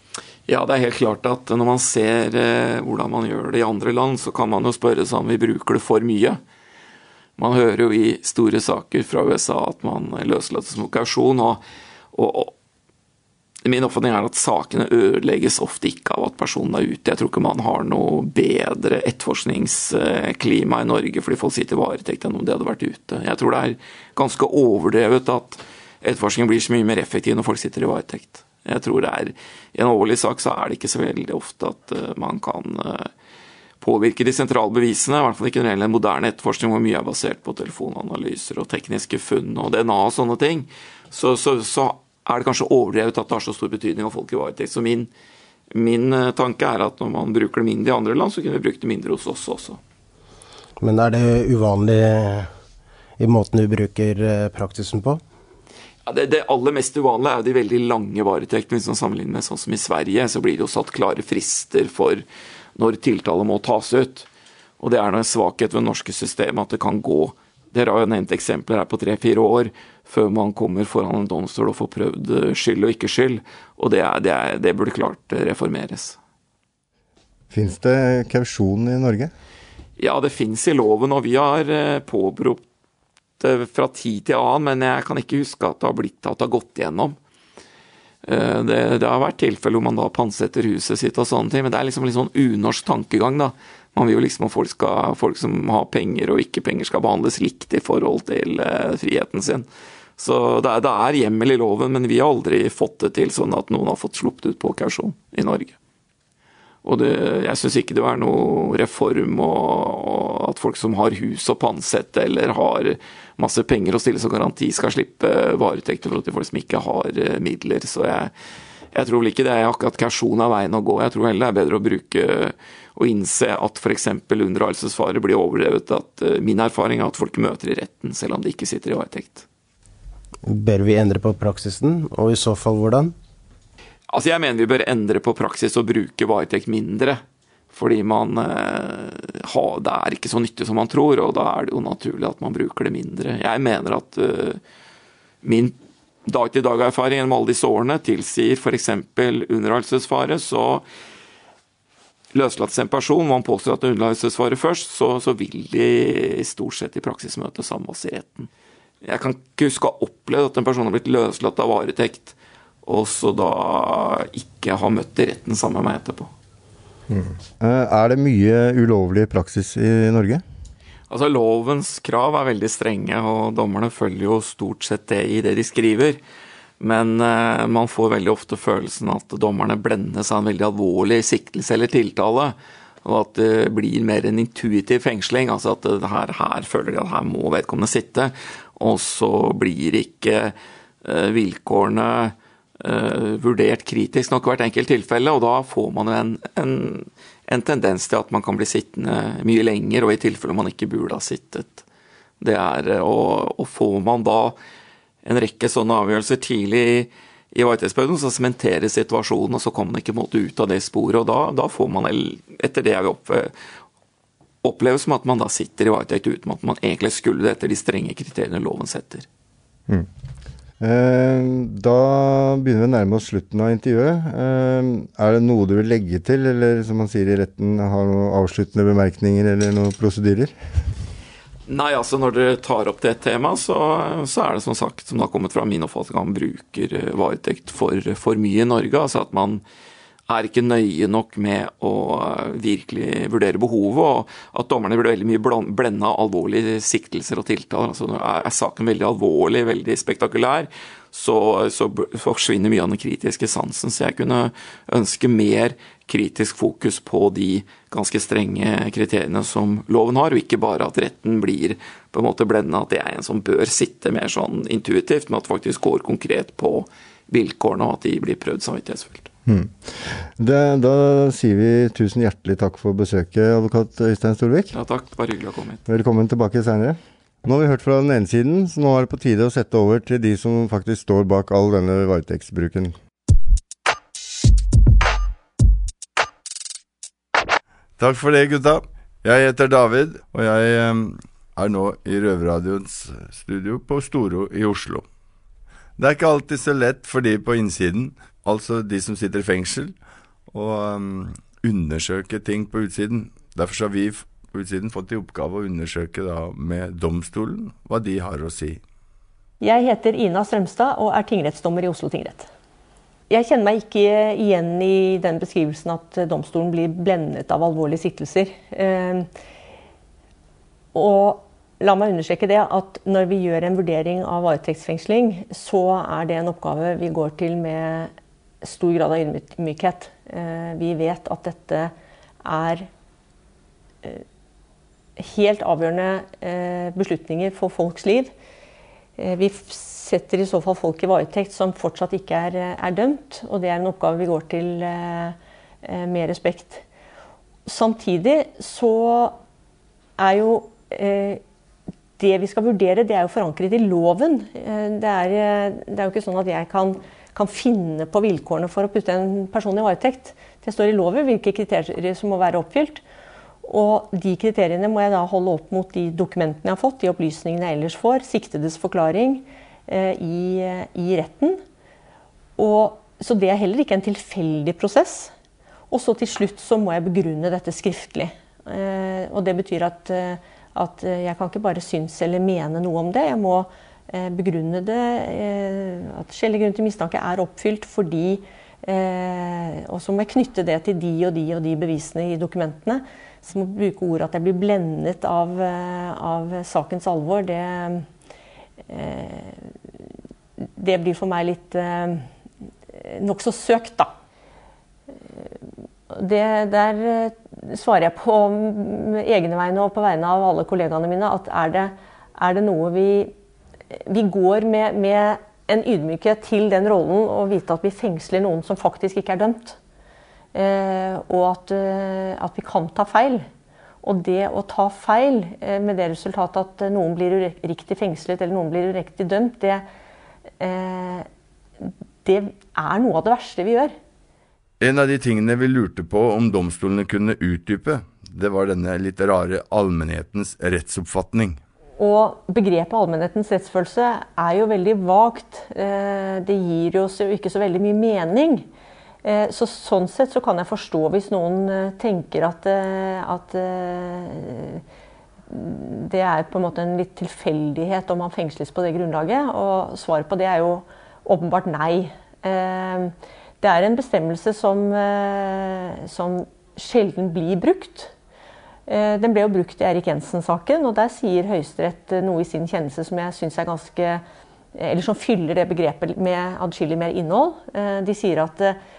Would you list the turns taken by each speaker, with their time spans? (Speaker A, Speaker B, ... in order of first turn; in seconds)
Speaker A: 0.5-6.4, 7.4-11.6, 12.1-12.5, 13.6-33.1, 33.8-45.1, 45.7-49.8, 56.0-62.2, 62.8-64.3, 64.8-76.2, 80.0-82.6, 83.4-87.2, 88.2-99.7, 100.2-105.8, 106.8-118.3, 118.9-129.4, 134.1-144.6, 145.4-145.8, 146.3-150.8, 152.3-158.5, 159.0-166.3, 171.1-176.2, 176.8-201.8, 202.4-204.6, 205.2-213.5, 214.6-219.3, 231.7-239.6, 240.3-269.3, 274.7-275.8
Speaker B: 50.8-52.5, 53.2-55.2, 130.4-133.1
Speaker C: 77.5-79.3, 167.1-170.4, 220.8-230.5, 269.4-274.7, 275.9-282.9
Speaker D: 288.0-295.0, 296.0-299.9, 300.5-308.8, 434.8-441.6
Speaker E: 309.6-312.5, 313.3-319.3, 320.9-328.1, 328.6-331.9, 332.4-332.9, 335.2-338.3, 339.2-346.8, 347.7-349.4, 350.2-351.4, 352.2-363.0, 363.6-371.6, 372.6-375.3, 375.9-398.0, 398.9-399.6, 400.8-402.2, 403.0-404.1, 406.1-413.3, 413.9-419.8, 420.5-423.4, 424.0-429.8, 430.6-431.3, 432.2-433.9, 442.0-448.6, 449.2-454.8, 455.5-468.1, 468.9-474.2, 474.7-478.8